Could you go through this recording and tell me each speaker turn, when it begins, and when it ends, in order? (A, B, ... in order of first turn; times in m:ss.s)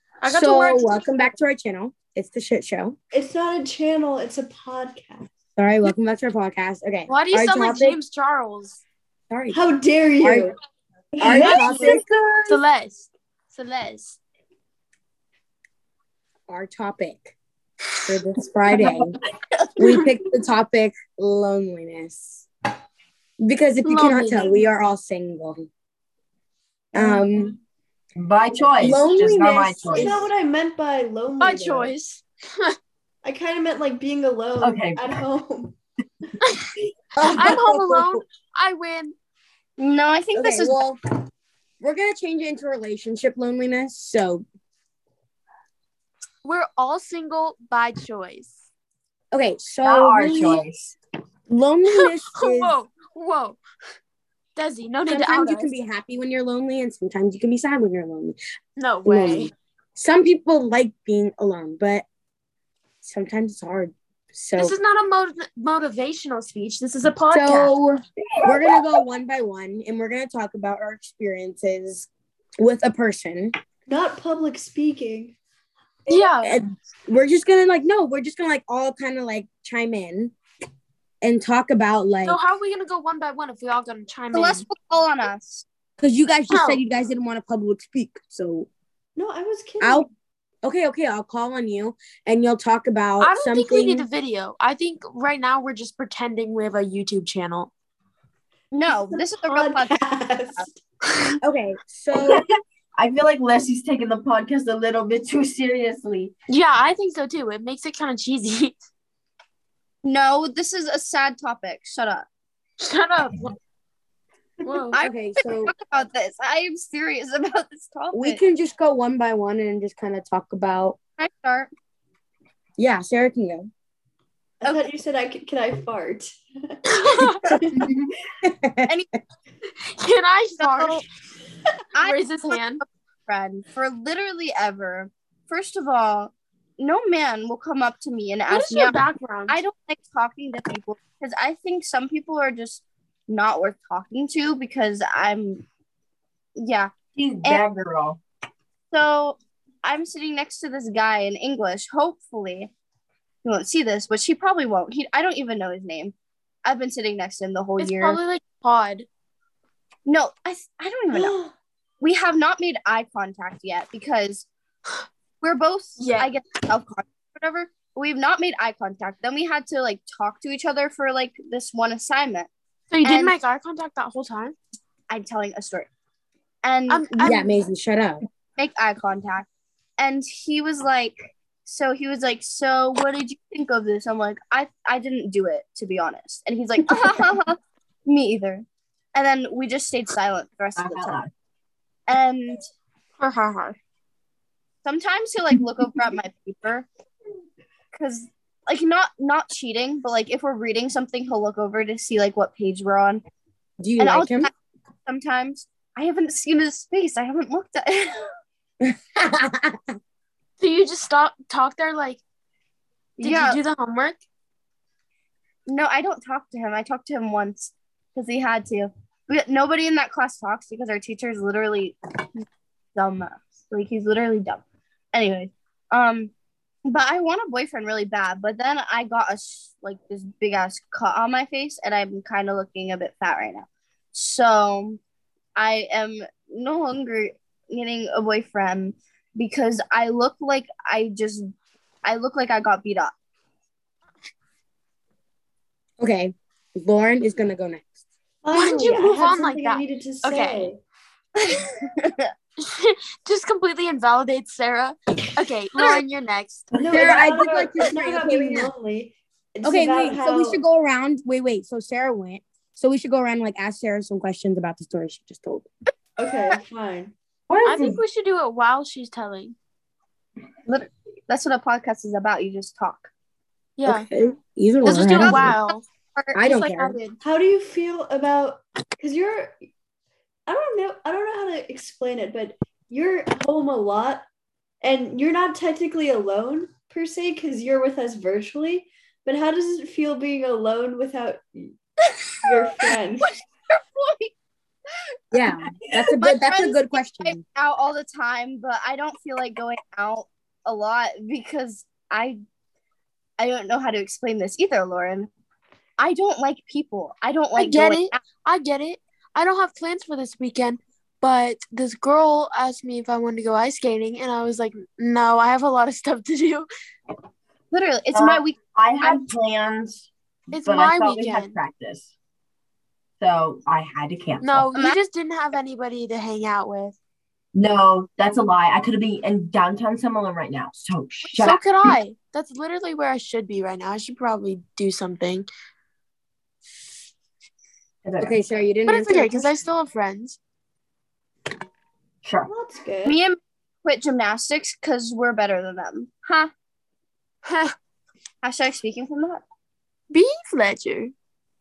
0:00.2-0:01.1 A
0:00.2-0:03.0 B
0:03.1-0:05.3 C
0:05.6-0:08.0 B
0:07.1-0:08.8 A
0:09.3-0:09.6 B
0:09.5-0:10.6 C
0:10.2-0:10.5 B
0:11.2-0:12.0 C
0:11.2-0:12.0 B
0:11.2-0:12.6 D
0:11.4-0:11.9 A
0:12.5-0:14.2 A
0:16.5-0:17.3 B
0:18.0-0:19.2 B
0:19.8-0:22.4 B
0:23.4-0:25.7 B
0:23.8-0:24.6 A
0:26.9-0:27.6 B
0:28.2-0:30.2 D
0:28.8-0:30.3 B
0:29.9-0:31.9 C
0:31.4-0:32.8 A
0:33.2-0:35.8 C
0:34.6-0:35.2 D
0:37.2-0:38.2 B
0:37.2-0:39.1 A
0:39.8-0:40.8 E
0:40.3-0:41.0 B
0:41.8-0:44.4 B
0:46.4-0:48.6 A
0:49.3-0:50.6 B
0:49.8-0:51.0 D
0:51.5-0:52.7 B
0:51.9-0:53.6 A
0:54.6-0:55.7 A
0:55.1-0:58.4 B
0:58.8-0:59.5 A
0:59.0-1:02.0 B
1:03.0-1:04.8 B
1:04.6-1:07.7 A
1:07.3-1:12.1 B
1:08.2-1:09.0 D
1:12.6-1:13.5 B
1:13.9-1:15.3 C
1:16.1-1:16.6 A
1:16.4-1:20.3 B
1:21.2-1:22.4 B
1:22.2-1:24.6 A
1:24.3-1:25.6 E
1:26.0-1:28.7 B
1:26.5-1:26.8 A
1:29.2-1:30.1 C
1:29.8-1:30.1 B
1:30.6-1:34.1 B
1:33.2-1:37.7 A
1:38.7-1:40.0 E
1:38.9-1:40.8 C
1:41.4-1:42.4 B
1:42.1-1:46.3 D
1:46.5-1:48.8 A
1:50.0-1:52.3 E
1:52.8-1:53.6 A
1:54.6-1:55.0 A
1:54.9-1:58.4 E
1:55.0-1:55.7 B
1:58.1-2:01.0 B
2:01.2-2:01.7 E
2:02.8-2:03.7 B
2:04.6-2:07.7 C
2:06.9-2:07.5 A
2:07.8-2:08.1 D
2:08.4-2:08.9 B
2:09.9-2:11.0 A
2:10.6-2:11.0 E
2:11.9-2:25.6 E
2:12.0-2:12.8 A
2:18.5-2:19.6 A
2:26.6-2:26.9 E
2:27.1-2:28.2 D
2:28.9-2:32.7 E
2:33.4-2:36.1 E
2:36.6-2:38.2 E
2:37.8-2:39.0 A
2:40.0-2:41.4 E
2:41.1-2:41.5 C
2:42.0-2:44.5 E
2:45.4-2:52.5 E
2:46.0-2:46.3 A
2:52.9-2:54.5 A
2:53.0-2:53.3 E
2:55.1-2:55.9 E
2:56.6-2:57.3 E
2:56.9-2:57.5 A
2:57.2-2:58.2 B
2:58.6-2:59.5 E
3:00.0-3:11.2 E
3:10.8-3:11.3 D
3:12.1-3:12.6 E
3:13.2-3:13.8 A
3:14.8-3:16.9 E
3:17.9-3:23.2 E
3:23.8-3:24.5 B
3:24.0-3:24.5 E
3:25.0-3:28.3 E
3:28.8-3:29.9 B
3:30.6-3:32.2 A
3:33.2-3:33.6 E
3:33.2-3:34.2 A
3:35.7-3:42.0 E
3:42.9-3:46.3 E
3:46.8-3:55.0 E
3:55.6-4:01.5 E
4:02.0-4:03.1 E
4:06.0-4:08.0 B
4:08.4-4:10.8 C
4:08.5-4:10.7 A
4:11.4-4:12.3 E
4:12.6-4:16.7 A
4:16.8-4:20.6 C
4:16.9-4:18.7 B
4:16.9-4:17.2 D
4:19.6-4:25.6 B
4:26.2-4:27.1 C
4:27.5-4:28.0 D
4:27.6-4:29.6 A
4:30.6-4:33.1 E
4:33.8-4:34.1 A
4:33.8-4:35.6 B
4:34.8-4:35.8 A
4:34.8-4:36.4 E
4:36.3-4:37.0 B
4:36.4-4:37.2 A
4:37.2-4:39.6 C
4:40.5-4:44.2 C
4:44.8-4:51.8 C
4:52.1-4:54.3 E
4:52.4-4:53.3 C
4:55.3-4:57.4 B
4:55.7-4:56.1 D
4:56.2-5:02.4 E
5:03.4-5:05.3 E
5:06.0-5:08.2 E
5:07.6-5:16.7 A
5:17.7-5:19.3 E
5:18.1-5:22.1 D
5:20.5-5:21.6 A
5:23.2-5:24.7 D
5:24.4-5:27.0 A
5:27.5-5:31.6 D
5:31.3-5:35.5 A
5:38.0-5:38.4 D
5:38.2-5:39.6 B
5:38.8-5:40.4 A
5:42.2-5:42.5 D
5:42.5-5:43.2 C
5:43.0-5:46.5 E
5:47.4-5:47.7 A
5:48.4-5:49.4 E
5:50.1-5:51.1 A